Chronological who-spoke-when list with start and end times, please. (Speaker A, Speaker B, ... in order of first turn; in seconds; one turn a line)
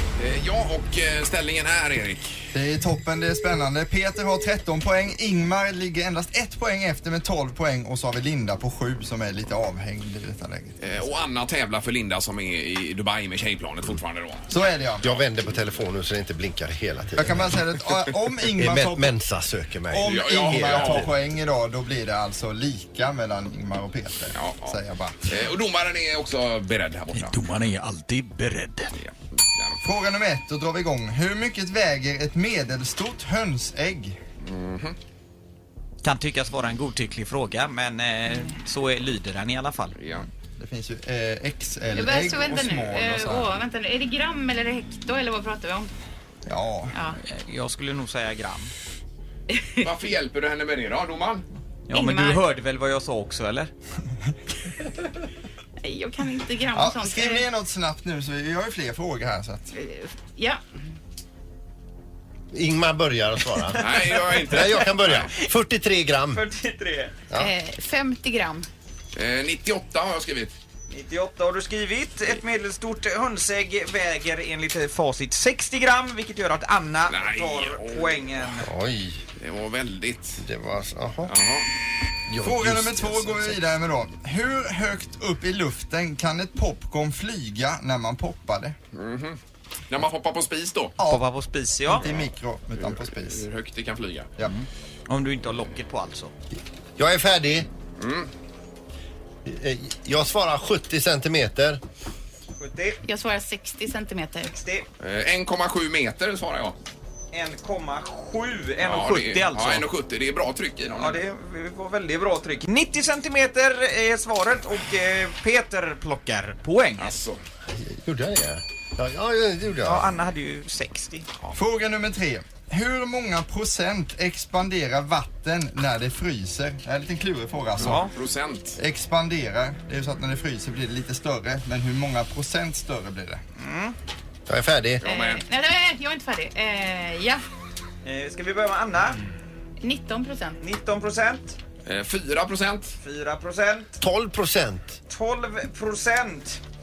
Speaker A: 0.2-2.5
Speaker B: 2.5-10.8
Speaker A: 10.8-14.5
Speaker B: 14.5-15.2
Speaker C: 15.0-17.6
Speaker B: 17.2-19.1
Speaker C: 18.6-21.1
Speaker B: 19.9-25.2
Speaker A: 20.0-21.1
Speaker A: 24.3-27.4
Speaker D: 27.1-28.9
Speaker A: 28.9-29.8
Speaker B: 29.8-34.2
Speaker A: 34.4-35.0
Speaker D: 36.0-40.0
Speaker A: 40.0-40.2
Speaker B: 40.2-43.5
Speaker E: 41.9-45.9
Speaker B: 46.5-46.9
Speaker D: 47.2-48.7
Speaker E: 49.6-49.8
Speaker A: 49.8-51.5
Speaker D: 51.9-53.7
Speaker E: 51.9-52.4
Speaker E: 55.8-57.4
Speaker B: 56.7-59.7
Speaker E: 59.7-60.6
Speaker C: 62.5-66.4
Speaker A: 63.8-65.3
Speaker D: 66.3-67.2
Speaker E: 67.3-68.7
Speaker A: 69.1-70.5
Speaker D: 70.9-78.7
Speaker A: 77.1-78.3
Speaker C: 78.6-79.2
Speaker A: 79.4-80.4
Speaker C: 80.4-81.3
Speaker A: 81.3-81.7
Speaker C: 82.3-83.6
Speaker B: 82.4-88.7
Speaker A: 88.9-89.4
Speaker A: 89.9-91.0
Speaker B: 91.0-91.3
Speaker D: 91.0-92.0
Speaker B: 91.9-93.5
Speaker A: 92.8-94.3
Speaker D: 94.4-96.3
Speaker C: 97.0-97.7
Speaker A: 98.0-98.3
Speaker C: 99.4-101.8
Speaker D: 102.5-103.0
Speaker E: 103.0-104.5
Speaker D: 104.5-104.9
Speaker A: 105.0-106.8
Speaker D: 107.3-109.9
Speaker A: 108.8-111.2
Speaker D: 110.8-117.1
Speaker A: 117.0-117.4
Speaker C: 117.8-120.2
Speaker D: 119.8-121.3
Speaker B: 121.5-128.1
Speaker D: 127.8-128.1
Speaker A: 127.8-128.8
Speaker B: 128.8-133.4
Speaker D: 133.6-133.9
Speaker C: 134.5-135.0
Speaker A: 135.0-135.4
Speaker E: 135.0-137.4
Speaker D: 138.0-139.2
Speaker E: 139.8-140.6
Speaker D: 140.6-141.6
Speaker A: 141.8-143.0
Speaker D: 143.0-143.9
Speaker C: 144.0-145.0
Speaker D: 145.1-146.6